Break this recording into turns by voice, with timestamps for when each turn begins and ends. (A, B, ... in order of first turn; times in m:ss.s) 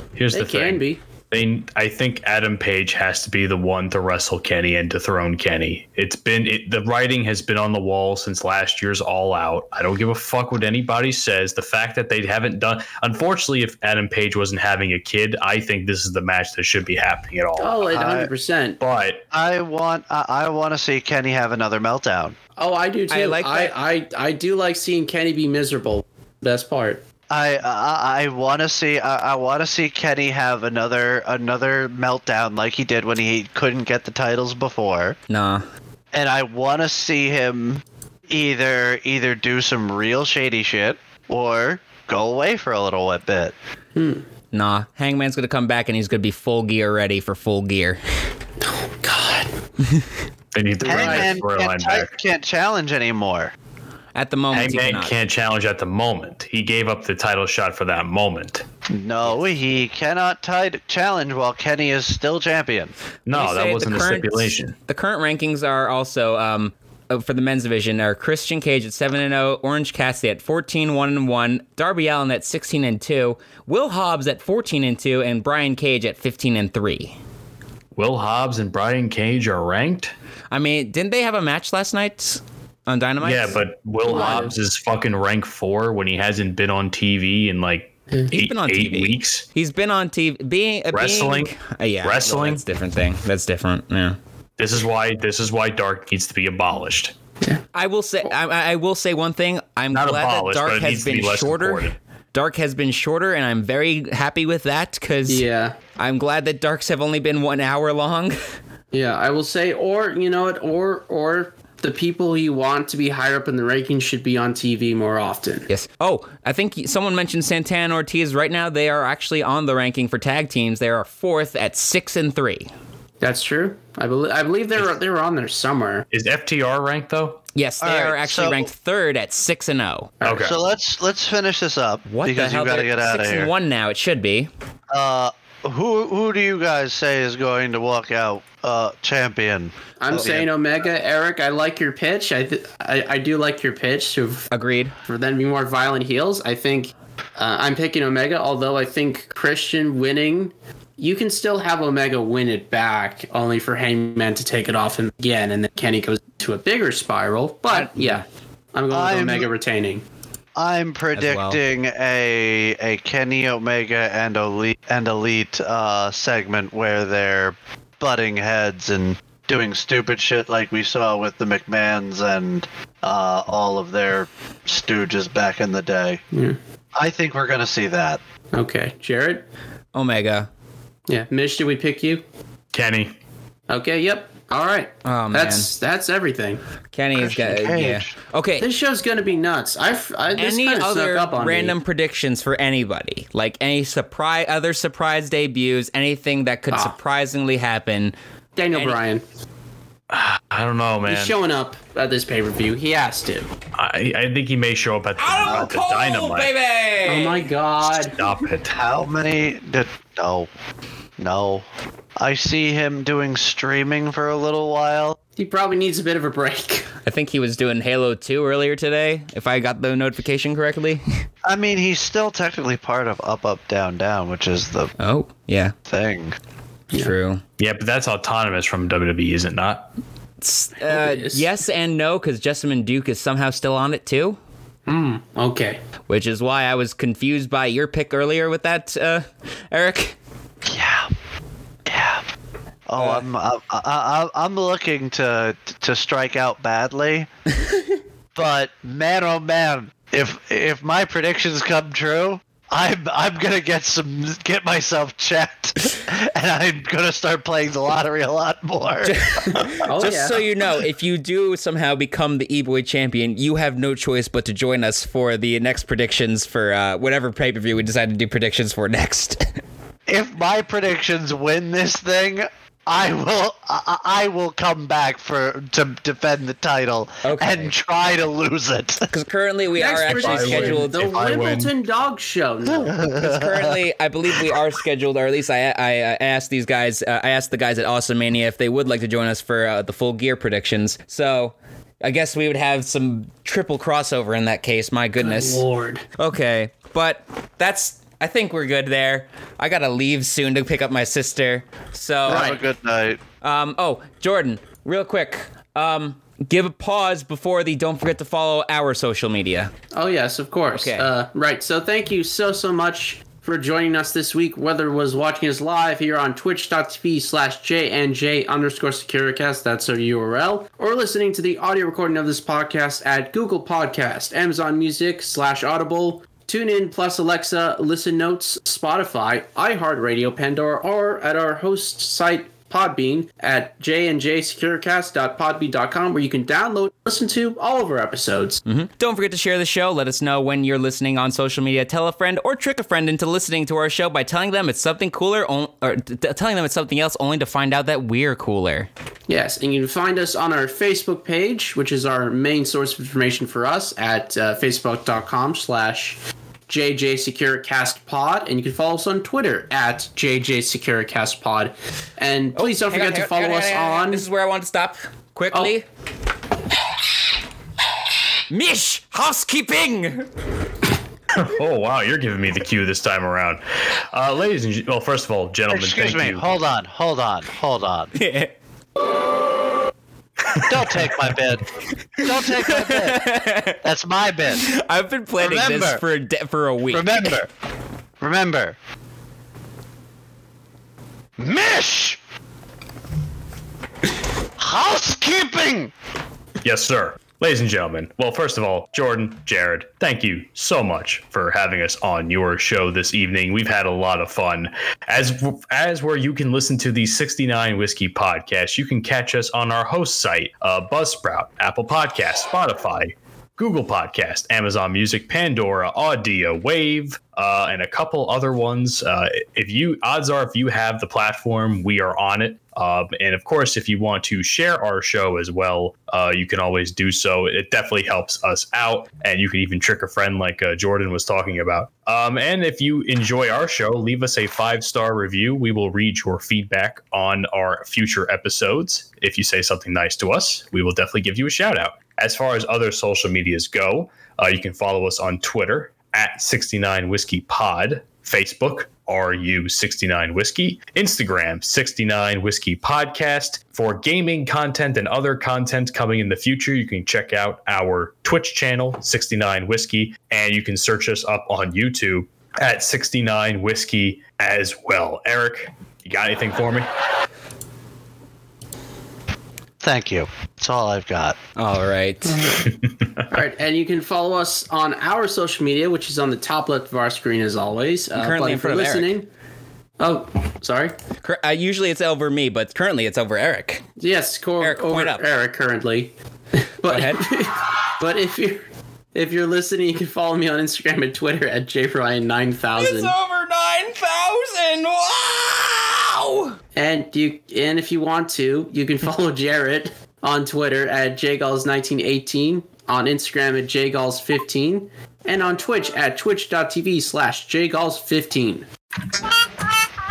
0:00.1-0:17.9 A
0:00.3-0:01.0 B
0:17.6-0:18.8 B
0:17.9-0:18.3 C
0:18.8-0:19.2 A
0:19.3-0:22.4 C
0:22.6-0:27.0 B
0:23.1-0:23.7 D
0:27.3-0:35.2 C
0:35.3-0:35.6 D
0:36.1-0:43.5 C
0:43.9-0:44.2 B
0:44.5-0:48.0 D
0:48.6-0:49.5 B
0:50.5-0:52.1 A
0:50.8-0:51.4 B
0:50.8-0:53.5 C
0:54.1-0:55.1 D
0:54.5-0:58.6 A
0:58.9-1:02.9 C
1:03.3-1:04.7 A
1:03.3-1:17.2 D
1:17.9-1:20.1 A
1:20.5-1:23.6 D
1:23.2-1:29.4 A
1:24.0-1:24.5 B
1:28.3-1:34.2 D
1:30.9-1:32.6 A
1:34.6-1:37.1 A
1:37.7-1:45.4 D
1:39.9-1:42.0 A
1:45.3-1:45.8 B
1:46.0-1:48.6 D
1:48.9-1:55.7 B
1:55.7-2:02.7 D
2:03.2-2:06.0 B
2:06.1-2:07.4 A
2:07.5-2:10.1 D
2:07.8-2:08.7 C
2:10.2-2:10.6 A
2:10.2-2:13.5 C
2:12.1-2:14.5 D
2:14.9-2:20.5 C
2:20.0-2:24.5 B
2:20.1-2:20.4 D
2:24.5-2:24.9 D
2:25.0-2:40.0 B
2:37.7-2:38.2 D
2:38.9-2:39.5 C
2:40.6-2:56.2 C
2:41.1-2:41.6 D
2:56.3-2:56.6 B
2:56.9-2:58.2 C
2:58.5-2:59.4 B
2:59.9-3:00.5 D
3:01.1-3:02.2 B
3:02.7-3:03.1 A
3:03.7-3:06.6 B
3:05.0-3:05.7 D
3:06.9-3:08.7 D
3:07.2-3:08.1 C
3:08.6-3:11.8 B
3:10.4-3:18.1 D
3:18.6-3:19.2 B
3:18.7-3:19.0 D
3:20.1-3:21.4 A
3:21.0-3:23.5 B
3:23.7-3:26.5 A
3:25.2-3:27.5 D
3:27.0-3:28.2 B
3:27.8-3:28.8 A
3:28.7-3:30.5 C
3:31.2-3:31.6 C
3:32.2-3:35.2 C
3:35.4-3:36.9 B
3:37.0-3:41.0 D
3:41.4-3:44.9 C
3:45.0-3:45.7 D
3:45.9-3:46.4 C
3:46.9-3:47.4 D
3:47.6-3:49.9 A
3:50.4-3:54.4 D
3:50.8-3:51.4 B
3:54.9-3:55.8 B
3:56.1-4:00.2 D
4:00.6-4:01.1 C
4:01.9-4:02.2 C
4:02.9-4:07.3 C
4:03.0-4:03.2 D
4:08.3-4:19.1 C
4:19.0-4:29.6 D
4:19.8-4:20.4 B
4:30.1-4:39.1 C
4:37.2-4:37.7 D
4:39.1-4:41.0 D
4:39.8-4:43.1 B
4:40.0-4:41.7 A
4:42.7-4:43.6 C
4:43.1-4:55.6 D
4:55.2-4:56.0 B
4:56.2-5:02.5 D
5:02.3-5:02.6 B
5:02.3-5:03.2 C
5:03.4-5:09.7 D
5:09.9-5:38.6 B
5:10.7-5:11.1 D
5:38.6-5:48.9 D
5:49.3-6:04.2 B
6:02.5-6:05.8 D
6:08.5-6:10.3 D
6:11.3-6:16.5 A
6:15.7-6:18.1 C
6:18.1-6:18.5 D
6:20.6-6:21.7 C
6:22.2-6:23.8 D
6:22.2-6:24.7 C
6:24.6-6:27.3 D
6:25.4-6:26.0 C
6:26.9-6:27.5 C
6:28.2-6:28.8 C
6:31.4-6:32.2 C
6:34.6-6:35.9 C
6:36.6-7:46.9 A
7:49.8-7:51.4 C
7:51.6-7:52.6 D
7:52.3-7:52.6 B
7:52.6-7:53.3 A
7:53.3-7:59.3 B
7:58.1-7:59.1 D
8:00.0-8:01.0 B
8:01.2-8:03.9 D
8:04.0-8:06.1 B
8:04.6-8:05.2 D
8:06.8-8:13.1 B
8:06.9-8:07.3 D
8:12.8-8:16.6 D
8:16.7-8:28.7 B